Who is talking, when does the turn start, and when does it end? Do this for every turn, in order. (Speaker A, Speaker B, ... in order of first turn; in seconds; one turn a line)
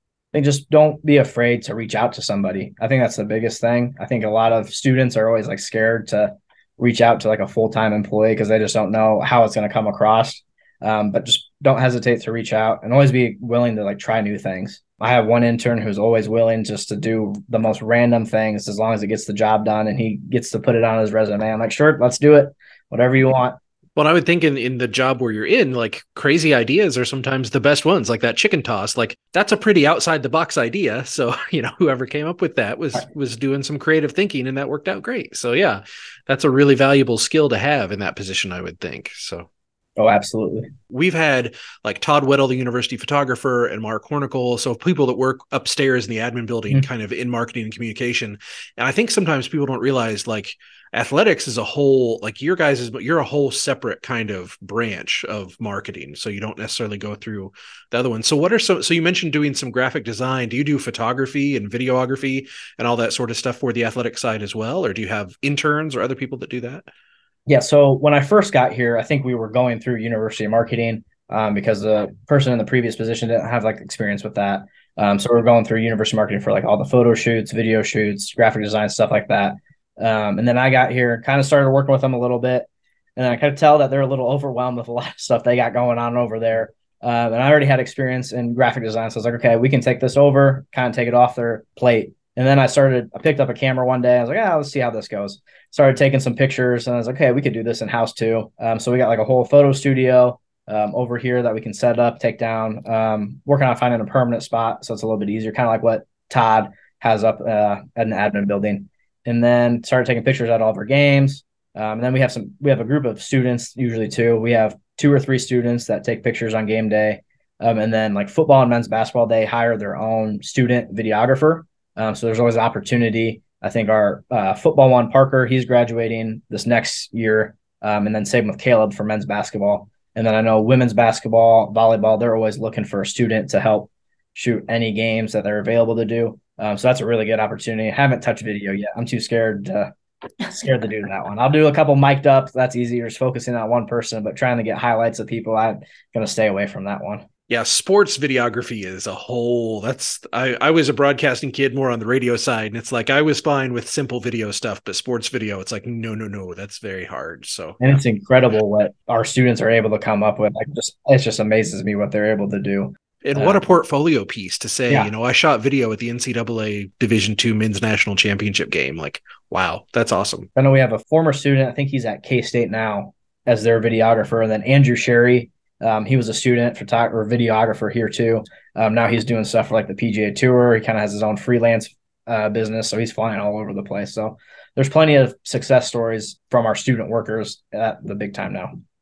Speaker A: 0.3-23.6
Speaker B: 23.9-39.5
Speaker A: 40.0-40.7
Speaker B: 40.9-66.8
Speaker A: 67.5-139.9
Speaker A: 140.5-147.2
Speaker B: 147.5-158.0
Speaker A: 157.8-163.7
Speaker B: 163.2-170.5
Speaker A: 170.6-188.7